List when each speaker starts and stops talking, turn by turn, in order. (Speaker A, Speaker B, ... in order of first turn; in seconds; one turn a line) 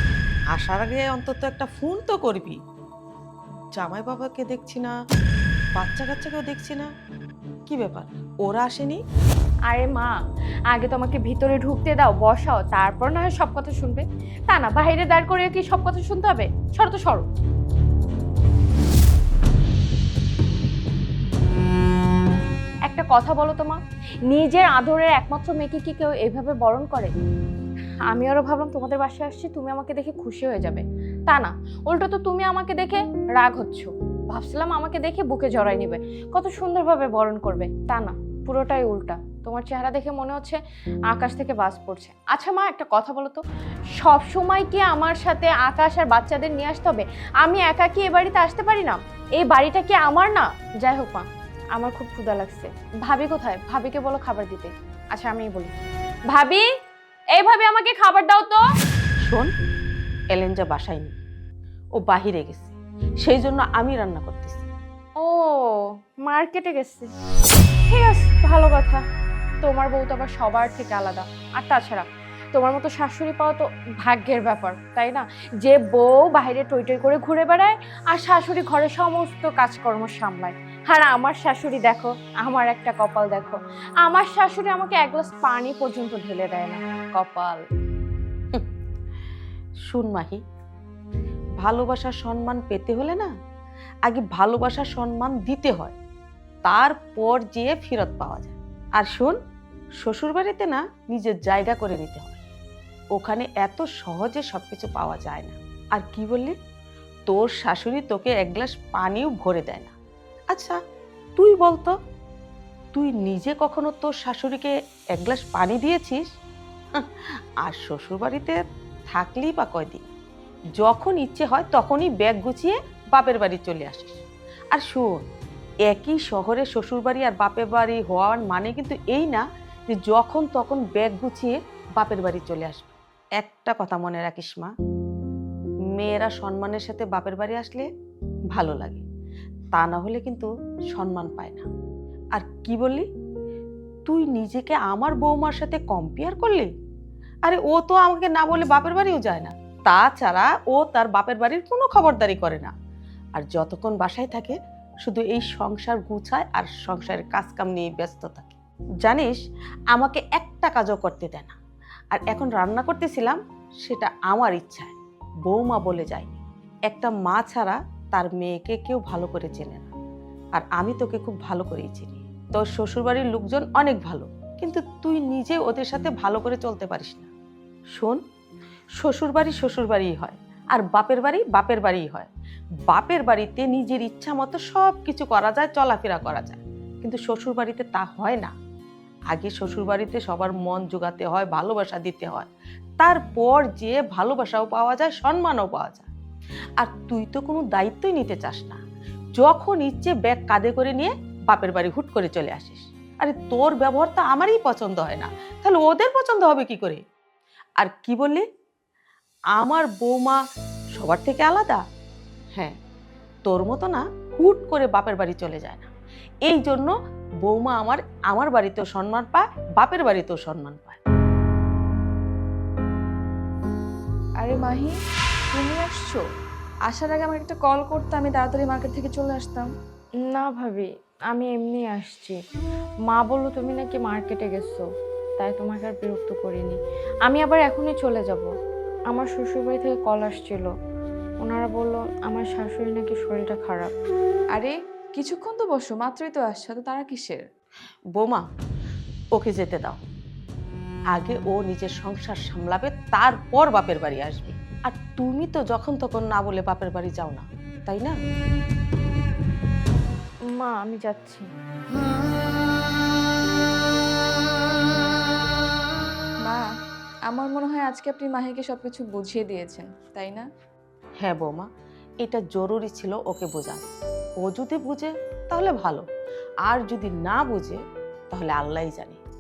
Speaker A: 0.5-2.6
Speaker A: 3.8-5.0
Speaker A: 5.8-6.9
Speaker A: 7.7-9.0
Speaker B: 9.7-10.2
Speaker B: 10.7-17.3
Speaker B: 22.9-27.1
Speaker B: 28.1-43.4
Speaker B: 44.0-55.8
Speaker B: 56.3-56.7
Speaker B: 57.3-58.6
Speaker A: 59.2-59.5
Speaker A: 60.3-61.2
Speaker A: 62.0-64.7
Speaker B: 65.2-67.1
Speaker B: 67.9-69.0
Speaker B: 69.6-87.6
Speaker A: 89.9-90.4
Speaker A: 91.6-93.3
Speaker A: 94.1-96.0
Speaker A: 96.7-99.4
Speaker A: 100.0-102.4
Speaker A: 103.2-106.6
Speaker A: 107.3-109.9
Speaker A: 110.5-110.8
Speaker A: 111.4-111.9
Speaker A: 112.9-116.3
Speaker A: 116.9-118.6
Speaker A: 119.1-120.1
Speaker A: 120.8-124.2
Speaker A: 124.7-125.2
Speaker A: 125.9-134.7
Speaker A: 136.0-137.9
Speaker A: 138.5-139.0
Speaker A: 139.7-141.7
Speaker A: 142.3-143.1
Speaker A: 144.1-146.7
Speaker A: 147.5-152.7
Speaker A: 153.4-159.4
Speaker A: 159.9-161.6
Speaker A: 162.1-169.9
Speaker A: 170.6-177.3
Speaker A: 179.0-182.3
Speaker A: 182.9-188.5
Speaker A: 189.3-192.5
Speaker A: 193.0-196.1
Speaker A: 196.8-198.8
Speaker A: 199.4-207.0
Speaker A: 207.8-208.4
Speaker A: 209.6-210.4
Speaker A: 211.0-211.8
Speaker A: 213.4-215.9
Speaker A: 216.5-216.9
Speaker A: 217.4-221.0
Speaker C: 224.4-224.9
Speaker C: 225.5-226.2
Speaker C: 226.9-229.7
Speaker B: 230.3-232.4
Speaker B: 233.1-234.8
Speaker B: 235.4-238.5
Speaker B: 239.1-240.7
Speaker B: 241.4-243.9
Speaker C: 244.6-247.4
Speaker A: 248.2-248.4
Speaker A: 249.4-250.0
Speaker A: 251.1-258.2
Speaker B: 260.6-261.5
Speaker C: 267.3-270.5
Speaker A: 271.2-271.7
Speaker A: 272.2-273.9
Speaker A: 274.4-276.0
Speaker A: 276.6-277.8
Speaker A: 278.3-279.2